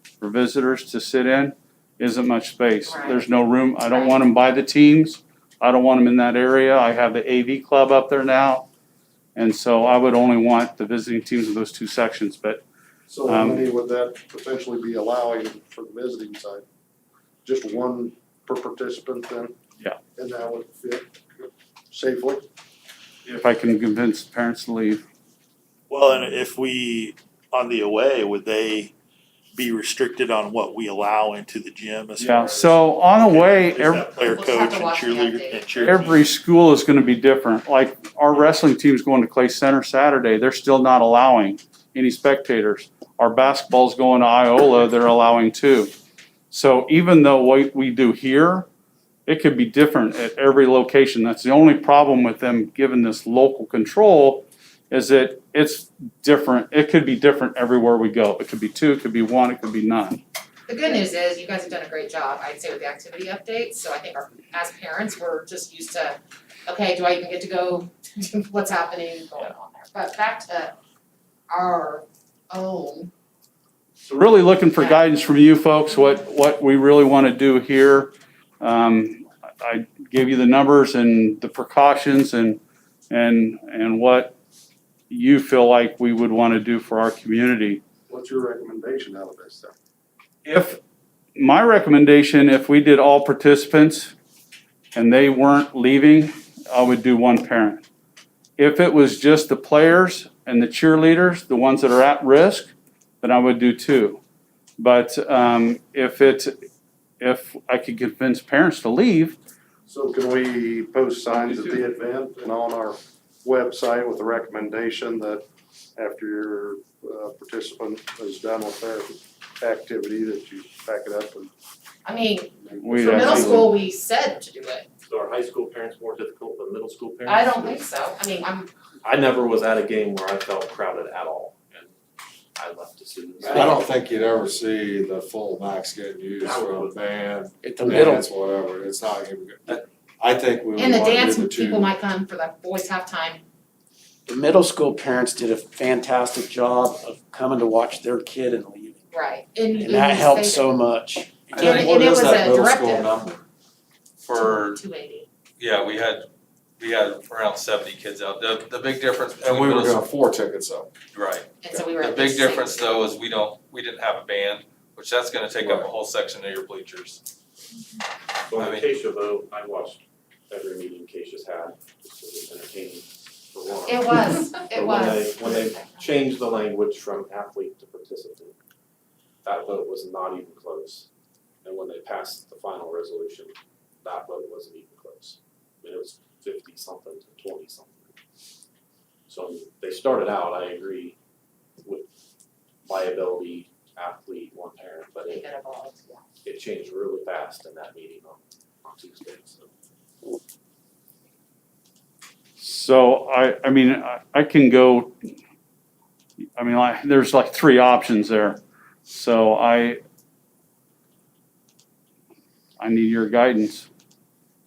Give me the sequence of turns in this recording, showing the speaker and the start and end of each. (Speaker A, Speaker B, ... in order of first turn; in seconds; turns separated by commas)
Speaker A: 0.2-8.7, Speaker B: 2.9-3.3, Speaker B: 3.9-4.2, Speaker A: 9.3-12.6, Speaker C: 13.1-16.6, Speaker A: 13.2-13.7, Speaker C: 17.4-19.5, Speaker C: 20.1-22.4, Speaker A: 23.2-25.0, Speaker D: 25.9-28.9, Speaker D: 29.5-36.2, Speaker A: 32.2-34.1, Speaker B: 34.1-36.0, Speaker A: 35.8-45.9, Speaker A: 46.5-48.7, Speaker A: 49.2-60.2, Speaker B: 60.7-70.8, Speaker B: 71.5-73.1, Speaker A: 74.0-84.3, Speaker B: 74.7-75.0, Speaker A: 85.1-87.8, Speaker C: 88.1-89.7, Speaker A: 90.5-90.8, Speaker A: 91.3-94.1, Speaker A: 94.9-97.8, Speaker A: 98.6-104.2, Speaker A: 104.8-106.5, Speaker A: 107.2-109.4, Speaker C: 109.9-115.4, Speaker C: 116.0-121.5, Speaker B: 122.0-124.9, Speaker C: 122.7-123.7, Speaker A: 122.8-123.7, Speaker E: 125.1-127.8, Speaker B: 127.3-128.7, Speaker E: 129.0-131.9, Speaker E: 132.6-133.8, Speaker F: 133.5-133.8, Speaker G: 133.5-141.9, Speaker E: 136.4-136.9, Speaker F: 137.6-138.3, Speaker B: 140.8-143.4, Speaker F: 144.3-149.0, Speaker B: 149.1-150.6, Speaker F: 149.7-151.9, Speaker G: 151.6-153.4, Speaker B: 151.6-153.1, Speaker H: 154.2-154.8, Speaker B: 154.3-155.3, Speaker H: 155.6-156.2, Speaker H: 156.8-160.0, Speaker G: 159.4-160.9, Speaker H: 161.1-167.2, Speaker B: 161.6-163.1, Speaker E: 165.6-165.9, Speaker E: 168.5-178.6, Speaker H: 168.5-168.9, Speaker B: 173.8-176.1, Speaker E: 179.4-181.1, Speaker E: 181.6-188.1, Speaker E: 189.3-191.2, Speaker E: 192.8-195.4, Speaker B: 195.3-196.2, Speaker E: 196.4-199.7, Speaker A: 202.6-205.2, Speaker A: 206.6-210.0, Speaker A: 212.8-213.9